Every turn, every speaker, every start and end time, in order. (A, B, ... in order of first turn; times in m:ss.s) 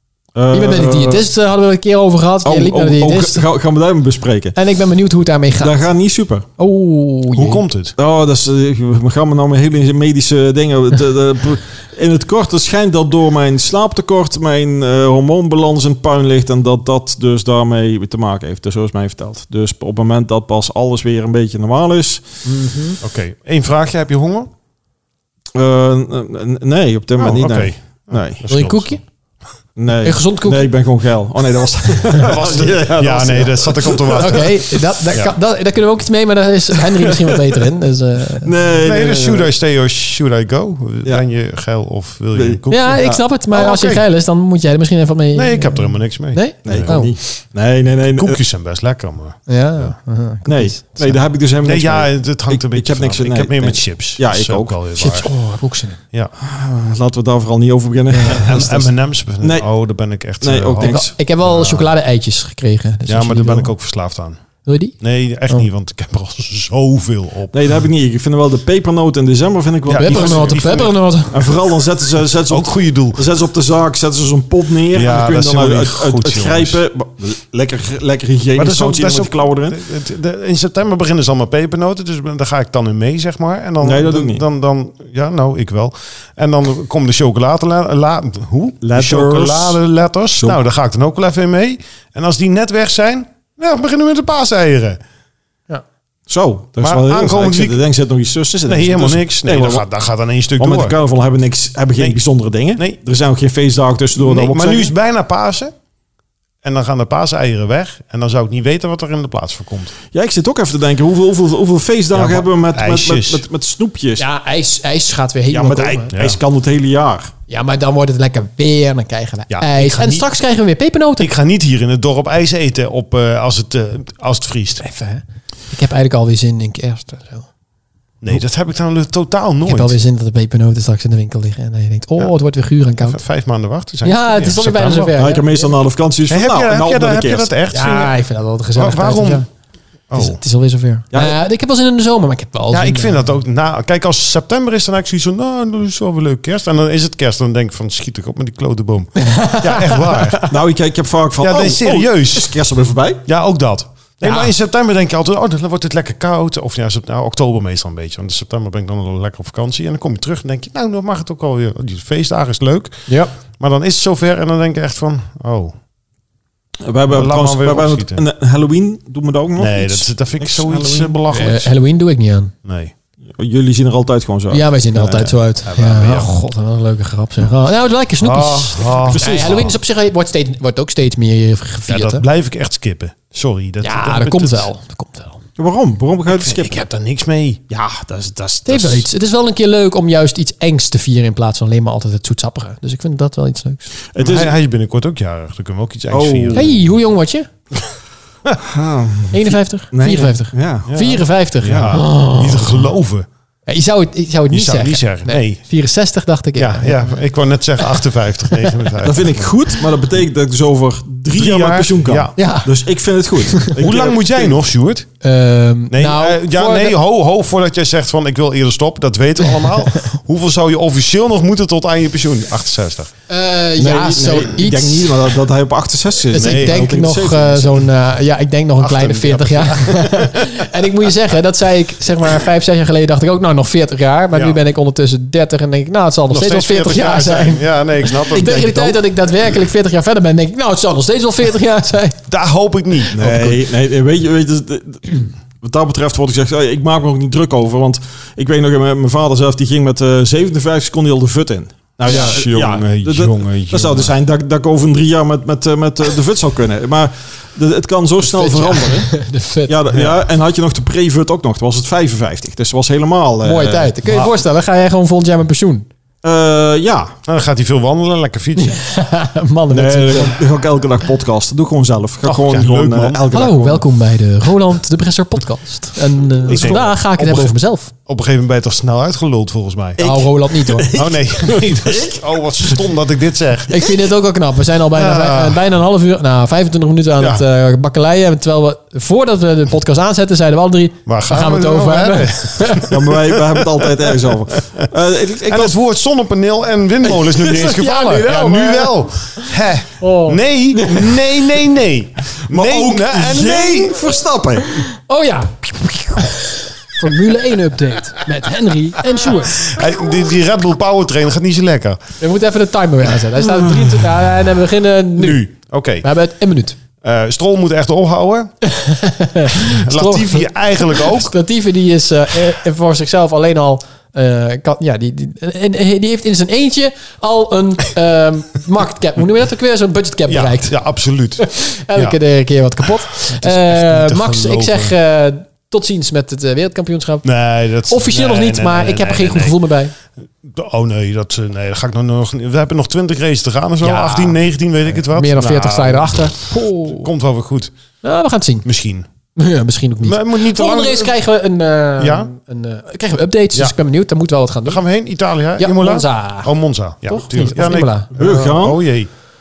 0:00.3-0:01.2 A
0:00.5-0:03.4 B
0:02.4-0:04.6 A
0:04.5-0:05.8 B
0:05.6-0:06.5 A
0:06.6-0:07.6 B
0:07.3-0:07.9 C
0:08.0-0:22.2 A
0:22.4-0:23.0 B
0:23.0-0:24.5 C
0:25.5-0:28.5 A
0:27.2-0:29.0 C
0:28.5-0:29.0 B
0:29.8-0:34.5 A
0:30.0-0:30.7 B
0:32.2-0:34.6 C
0:34.1-0:38.5 B
0:38.4-0:39.5 A
0:38.8-0:44.0 C
0:42.3-0:43.1 A
0:42.7-0:47.1 B
0:45.3-0:47.0 C
0:46.6-0:48.4 A
0:48.1-0:49.9 C
0:49.5-0:51.2 B
0:50.5-0:54.8 A
0:51.6-0:55.3 C
0:55.0-0:56.0 B
0:56.4-0:59.7 A
0:58.1-0:58.4 B
0:58.2-1:01.9 C
1:00.4-1:01.1 A
1:00.8-1:03.7 B
1:03.1-1:04.4 C
1:04.6-1:04.9 B
1:05.0-1:07.6 C
1:07.5-1:19.8 A
1:09.9-1:10.9 C
1:09.9-1:11.4 B
1:12.5-1:13.2 C
1:14.9-1:16.8 C
1:18.6-1:35.0 C
1:23.8-1:24.4 A
1:28.8-1:29.8 A
1:36.3-1:39.9 A
1:36.8-1:37.8 C
1:38.6-1:41.0 C
1:40.6-1:44.9 A
1:44.2-1:45.7 C
1:46.6-1:49.9 C
1:50.1-1:54.2 A
1:52.1-1:53.4 C
1:54.2-1:56.1 B
1:55.5-1:57.3 A
1:56.1-1:56.4 C
1:57.5-2:01.3 B
1:59.5-2:00.2 C
2:01.2-2:04.8 C
2:04.8-2:07.5 B
2:08.2-2:10.0 C
2:09.6-2:13.2 B
2:13.0-2:15.2 C
2:14.0-2:15.7 B
2:15.2-2:17.5 A
2:16.3-2:18.2 C
2:17.7-2:19.4 B
2:18.7-2:19.4 C
2:20.1-2:20.4 C
2:20.1-2:23.2 B
2:22.7-2:30.4 C
2:29.2-2:30.5 B
2:30.5-2:33.2 A
2:31.4-2:32.5 C
2:33.2-2:45.7 C
2:34.2-2:34.5 B
2:43.1-2:43.3 B
2:46.8-2:51.2 A
2:47.1-2:48.2 C
2:49.6-2:51.7 C
2:51.3-2:52.5 B
2:52.6-2:52.9 C
2:53.3-2:55.4 A
2:54.5-3:02.2 B
2:55.6-2:56.3 C
2:58.2-2:59.7 C
2:59.0-2:59.7 A
3:01.9-3:04.7 C
3:03.8-3:05.4 B
3:05.6-3:06.8 A
3:06.3-3:07.6 C
3:07.7-3:09.1 A
3:08.6-3:13.9 B
3:14.1-3:14.5 A
3:14.2-3:16.7 C
3:16.1-3:16.7 A
3:16.5-3:17.5 B
3:18.6-3:20.9 A
3:19.3-3:22.9 B
3:20.8-3:23.3 C
3:23.7-3:27.1 B
3:24.5-3:25.6 C
3:26.6-3:29.5 C
3:28.6-3:28.9 B
3:29.0-3:34.6 A
3:31.3-3:32.3 C
3:32.4-3:32.7 B
3:33.8-3:35.1 C
3:35.2-3:37.0 B
3:35.9-3:43.1 C
3:43.3-3:45.2 B
3:43.8-3:47.8 A
3:46.3-4:02.2 B
3:46.3-3:46.9 C
3:48.8-3:50.6 C
3:54.3-3:54.6 C
3:56.3-3:59.0 C
4:02.3-4:03.6 C
4:03.1-4:19.1 A
4:12.0-4:14.1 C
4:12.1-4:12.4 B
4:18.2-4:19.7 B
4:19.7-4:24.0 A
4:23.4-4:25.9 B
4:26.2-4:27.2 A
4:27.2-4:28.8 C
4:28.6-4:30.4 B
4:29.7-4:33.8 A
4:32.2-4:33.2 C
4:33.3-4:37.9 B
4:36.5-4:37.5 C
4:36.5-4:36.8 A
4:38.0-4:40.0 C
4:40.0-4:42.8 A
4:40.0-4:40.9 B
4:40.9-4:43.8 C
4:43.7-4:52.9 B
4:44.9-4:45.6 C
4:47.2-4:47.4 C
4:51.0-4:54.9 C
4:52.9-4:55.8 A
4:55.4-5:04.0 C
4:57.1-5:01.2 B
5:02.5-5:04.8 A
5:04.7-5:09.8 B
5:09.4-5:12.0 C
5:12.2-5:15.4 B
5:15.2-5:16.0 C
5:16.0-5:16.8 B
5:17.0-5:18.5 C
5:18.6-5:30.8 B
5:19.6-5:21.3 C
5:30.3-5:32.2 C
5:31.4-5:37.3 B
5:33.2-5:34.9 C
5:37.2-5:39.6 C
5:37.9-5:39.9 B
5:40.4-5:47.7 C
5:43.8-5:44.4 B
5:45.0-5:47.1 B
5:48.0-5:48.6 B
5:48.6-5:49.1 C
5:49.4-5:54.8 B
5:50.0-5:51.1 C
5:52.0-5:52.3 C
5:54.6-5:59.1 C
5:55.6-5:56.5 B
5:57.0-5:58.2 B
5:58.2-5:58.8 A